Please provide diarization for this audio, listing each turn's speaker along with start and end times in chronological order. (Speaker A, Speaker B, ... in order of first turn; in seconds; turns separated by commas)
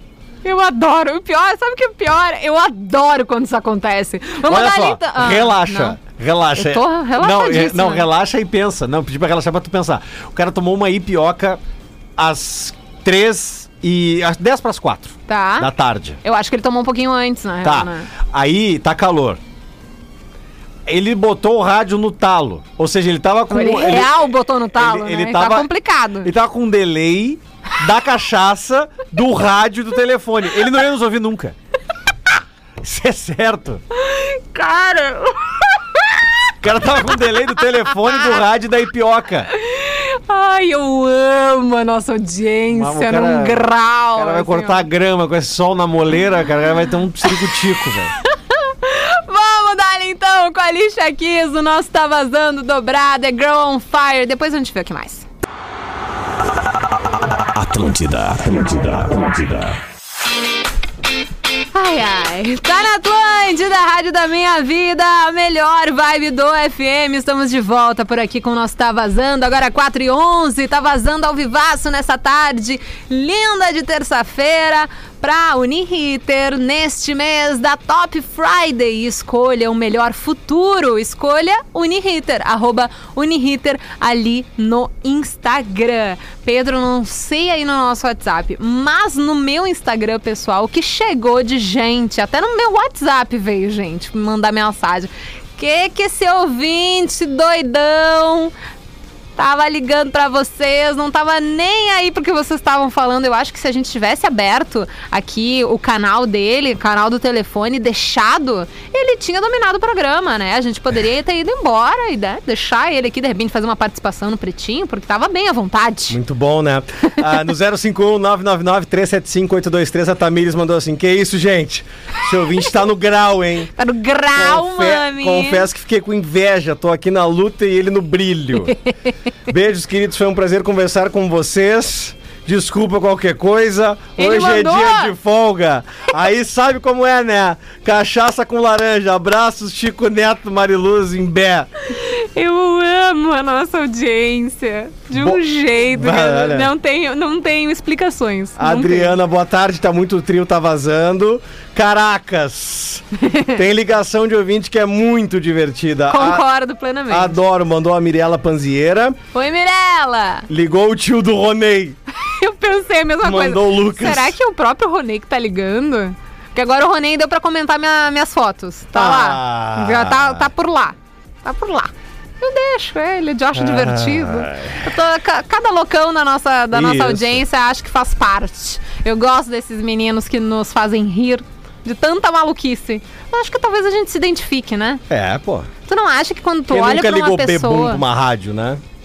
Speaker A: 0.4-6.0, Speaker B: 4.4-11.6, Speaker A: 6.5-8.1, Speaker B: 12.2-16.2, Speaker A: 15.3-15.7, Speaker A: 16.2-18.1, Speaker B: 17.6-19.4, Speaker B: 20.9-25.7, Speaker A: 23.5-26.3, Speaker B: 26.2-31.6, Speaker B: 32.8-33.8, Speaker A: 33.9-36.2, Speaker B: 36.6-39.5, Speaker A: 39.5-44.9, Speaker B: 42.7-48.1, Speaker A: 47.3-47.5, Speaker A: 48.2-55.2, Speaker C: 57.6-59.8, Speaker A: 61.7-98.5, Speaker A: 99.4-116.2, Speaker B: 116.1-123.7, Speaker A: 123.8-125.7, Speaker B: 124.3-128.8, Speaker B: 129.5-141.7, Speaker A: 134.2-135.1, Speaker A: 141.9-149.2, Speaker B: 145.1-146.7, Speaker B: 148.6-156.5, Speaker A: 153.2-153.6, Speaker A: 156.1-157.4, Speaker B: 157.1-159.2, Speaker A: 159.3-160.5, Speaker B: 160.5-162.0, Speaker A: 162.2-185.0, Speaker B: 163.2-164.3, Speaker B: 168.9-170.5, Speaker B: 173.5-174.9, Speaker B: 176.7-177.4, Speaker B: 185.1-185.7, Speaker A: 185.9-188.0, Speaker B: 186.7-188.8